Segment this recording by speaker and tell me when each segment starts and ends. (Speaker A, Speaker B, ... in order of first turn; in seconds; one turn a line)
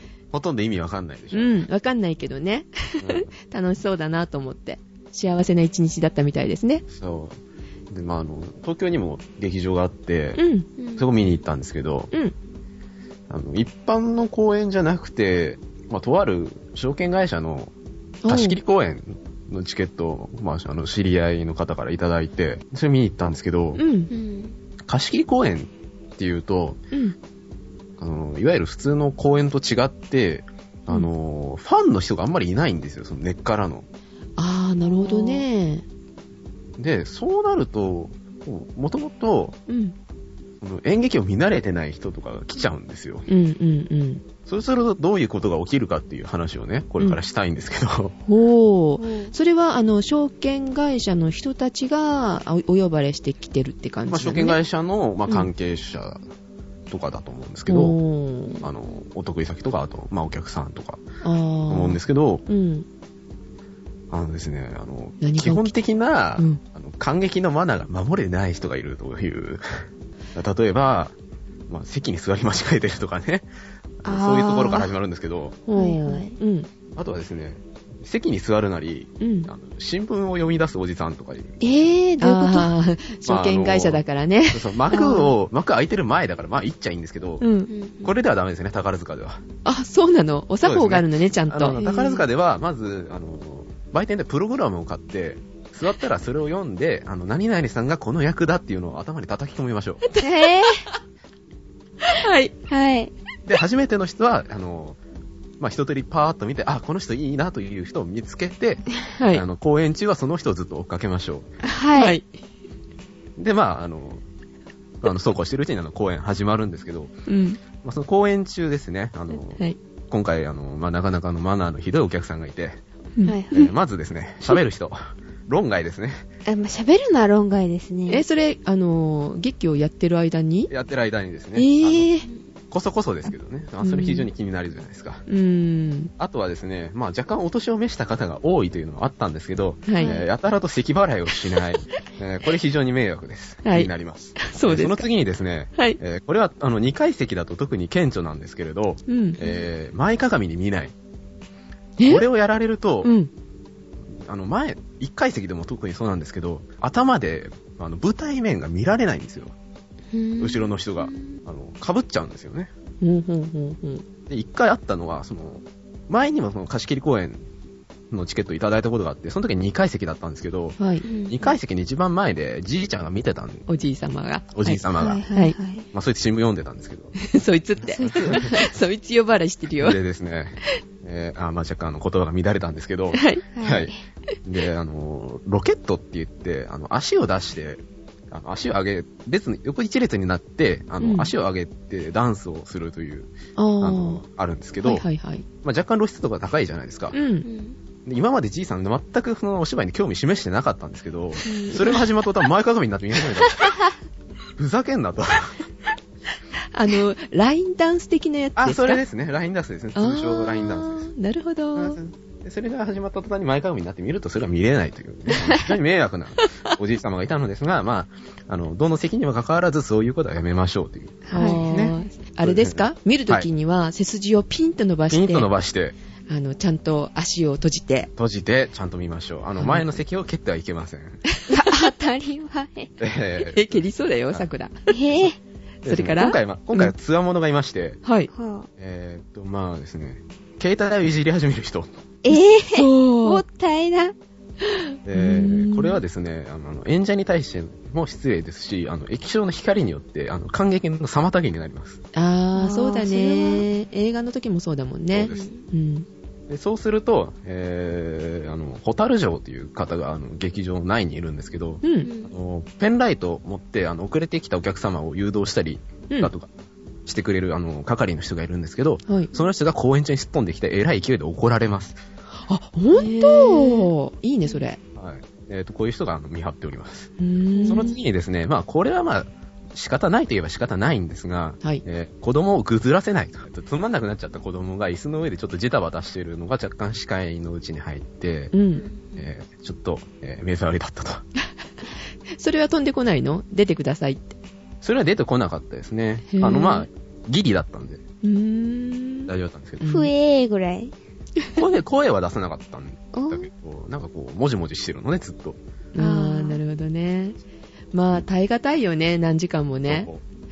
Speaker A: 0.3-1.6
Speaker B: 1.3-6.8
Speaker A: 3.0-3.3
Speaker A: 6.9-7.4
Speaker A: 7.9-10.4
Speaker B: 10.3-10.7
Speaker C: 10.8-11.1
Speaker A: 10.9-12.1
Speaker A: 13.3-17.7
Speaker B: 18.2-18.6
Speaker A: 18.3-23.8
Speaker B: 23.8-24.1
Speaker C: 24.1-24.5
Speaker A: 24.8-26.8
Speaker A: 28.0-33.9
Speaker B: 34.4-35.8
Speaker C: 34.9-35.4
Speaker A: 36.8-39.6
Speaker B: 39.7-39.9
Speaker A: 40.6-43.2
Speaker B: 43.3-44.2
Speaker A: 44.5-48.1
Speaker B: 48.2-54.6
Speaker C: 49.0-49.3
Speaker A: 54.1-56.2
Speaker A: 56.9-58.0
Speaker B: 57.7-58.7
Speaker A: 58.6-61.0
Speaker B: 61.2-62.9
Speaker A: 61.7-62.4
Speaker A: 64.1-69.6
Speaker B: 65.2-65.7
Speaker A: 70.3-71.1
Speaker A: 71.7-73.5
Speaker A: 74.0-75.6
Speaker C: 74.0-74.9
Speaker B: 75.7-76.7
Speaker C: 75.7-76.3
Speaker A: 76.9-81.6
Speaker B: 79.2-79.5
Speaker C: 81.6-82.7
Speaker B: 82.2-84.8
Speaker A: 83.2-87.5
Speaker C: 84.9-85.3
Speaker B: 87.4-87.7
Speaker C: 87.7-88.1
Speaker A: 88.0-89.4
Speaker B: 89.6-91.8
Speaker A: 90.6-100.0
Speaker C: 91.7-92.2
Speaker B: 100.0-100.7
Speaker C: 100.2-100.8
Speaker B: 102.0-102.5
Speaker C: 102.7-103.1
Speaker A: 103.5-105.0
Speaker A: 105.6-111.5
Speaker B: 109.2-109.4
Speaker C: 111.6-112.2
Speaker B: 111.9-112.2
Speaker A: 113.4-114.2
Speaker A: 115.0-117.1
Speaker B: 117.3-117.6
Speaker A: 117.8-122.8
Speaker C: 123.2-123.7
Speaker A: 123.5-126.2
Speaker C: 126.5-128.2
Speaker B: 128.1-130.7
Speaker A: 130.7-132.1
Speaker B: 131.5-132.3
Speaker A: 132.7-135.2
Speaker B: 133.8-134.3
Speaker B: 135.3-136.1
Speaker A: 136.2-150.9
Speaker B: 139.9-140.2
Speaker C: 139.9-140.3
Speaker B: 143.6-145.1
Speaker B: 149.1-149.4
Speaker C: 149.4-149.7
Speaker B: 152.0-152.2
Speaker A: 152.0-153.1
Speaker B: 153.0-153.3
Speaker A: 154.1-159.5
Speaker C: 160.1-161.2
Speaker A: 160.4-162.7
Speaker B: 163.0-164.0
Speaker A: 164.3-167.4
Speaker A: 168.1-170.8
Speaker B: 170.8-171.0
Speaker C: 171.0-171.5
Speaker A: 171.3-173.6
Speaker B: 173.7-174.8
Speaker A: 174.5-175.2
Speaker C: 175.0-175.8
Speaker A: 175.9-177.2
Speaker B: 177.2-180.0
Speaker A: 177.8-178.6
Speaker C: 177.9-178.5
Speaker A: 179.8-183.9
Speaker B: 183.1-183.4
Speaker C: 183.5-183.9
Speaker A: 184.4-195.1
Speaker B: 191.0-191.3
Speaker B: 193.6-194.2
Speaker B: 194.8-195.4
Speaker A: 195.6-197.2
Speaker B: 197.1-197.4
Speaker C: 197.4-197.8
Speaker A: 198.0-203.8
Speaker C: 201.4-201.9
Speaker A: 204.6-205.6
Speaker B: 206.7-209.0
Speaker A: 208.6-211.1
Speaker B: 209.9-212.0
Speaker A: 211.8-223.5
Speaker C: 221.3-221.9
Speaker B: 221.3-225.5
Speaker A: 225.1-225.9
Speaker B: 226.3-228.1
Speaker A: 228.2-231.2
Speaker B: 229.6-229.8
Speaker C: 231.5-232.9
Speaker A: 233.0-234.4
Speaker B: 233.4-234.9
Speaker C: 234.9-235.4
Speaker A: 235.8-238.0
Speaker B: 235.8-236.9
Speaker B: 238.0-238.3
Speaker C: 238.3-238.7
Speaker A: 238.8-241.9
Speaker C: 242.2-244.1
Speaker B: 242.3-243.4
Speaker B: 244.7-246.0
Speaker A: 245.1-252.0
Speaker B: 252.1-256.1
Speaker C: 252.5-253.7
Speaker A: 255.1-255.5
Speaker C: 255.3-255.6
Speaker A: 256.5-266.5
Speaker B: 261.8-262.1
Speaker C: 262.0-262.3
Speaker A: 267.1-272.0
Speaker B: 272.5-274.8
Speaker C: 272.9-273.9
Speaker A: 274.9-277.1
Speaker B: 277.2-278.0
Speaker C: 277.5-277.9
Speaker A: 277.7-288.5
Speaker B: 288.5-288.8
Speaker C: 288.8-289.2
Speaker A: 289.1-291.2
Speaker B: 292.4-294.3
Speaker A: 294.8-298.0
Speaker B: 296.3-296.9
Speaker B: 298.2-300.1
Speaker A: 299.3-299.9
Speaker C: 299.8-300.9
Speaker A: 301.5-305.6
Speaker C: 303.1-303.5
Speaker B: 305.9-307.4
Speaker C: 306.0-306.6
Speaker B: 307.9-310.1
Speaker A: 309.9-310.2